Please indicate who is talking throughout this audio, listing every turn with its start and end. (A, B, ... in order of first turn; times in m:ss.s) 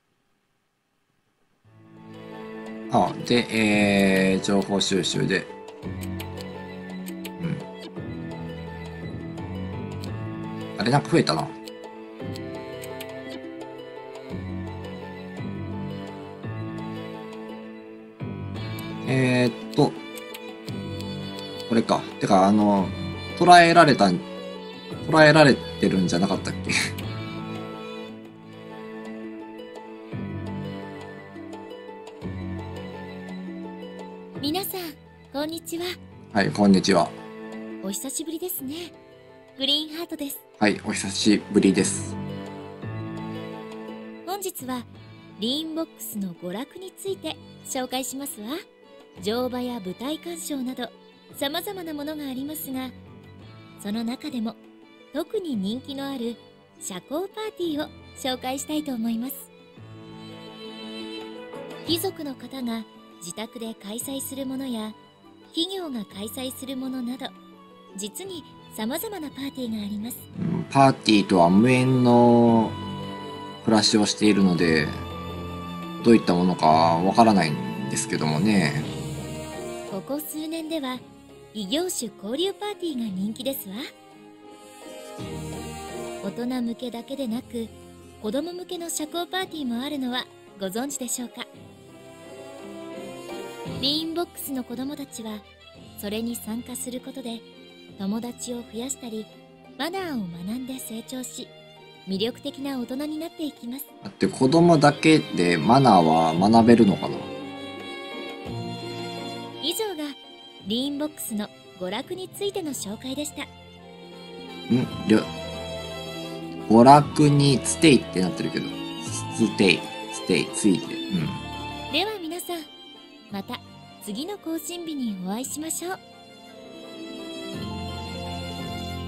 0:02.9-0:05.5 A
0:07.4-0:07.6 A
0:10.8-0:11.5 A
0:19.0-0:20.0 A
0:21.7-0:24.2 A
0:25.0-0:26.7 A
0:34.4-0:36.0 B
0:36.3-0:37.1 A
0:37.8-0:38.9 B
0:39.6-0:40.4 B
0:40.6-0:42.2 A
0:44.2-0:48.6 B
0:49.2-0:53.0 B
0:53.8-0:54.6 B
0:55.1-0:59.5 B
1:01.8-1:05.0 B
1:05.5-1:07.3 B
1:07.9-1:10.2 B
1:10.3-1:12.8 A
1:13.6-1:15.0 A
1:16.0-1:18.9 A
1:19.9-1:23.8 B
1:26.2-1:31.5 B
1:33.8-1:35.5 B
1:36.0-1:37.5 B
1:38.0-1:41.5 B
1:42.1-1:43.9 B
1:44.0-1:47.3 A
1:49.6-1:53.5 B
1:54.7-1:55.3 A
1:56.7-2:01.4 A
2:01.9-2:02.7 B
2:03.3-2:06.0 B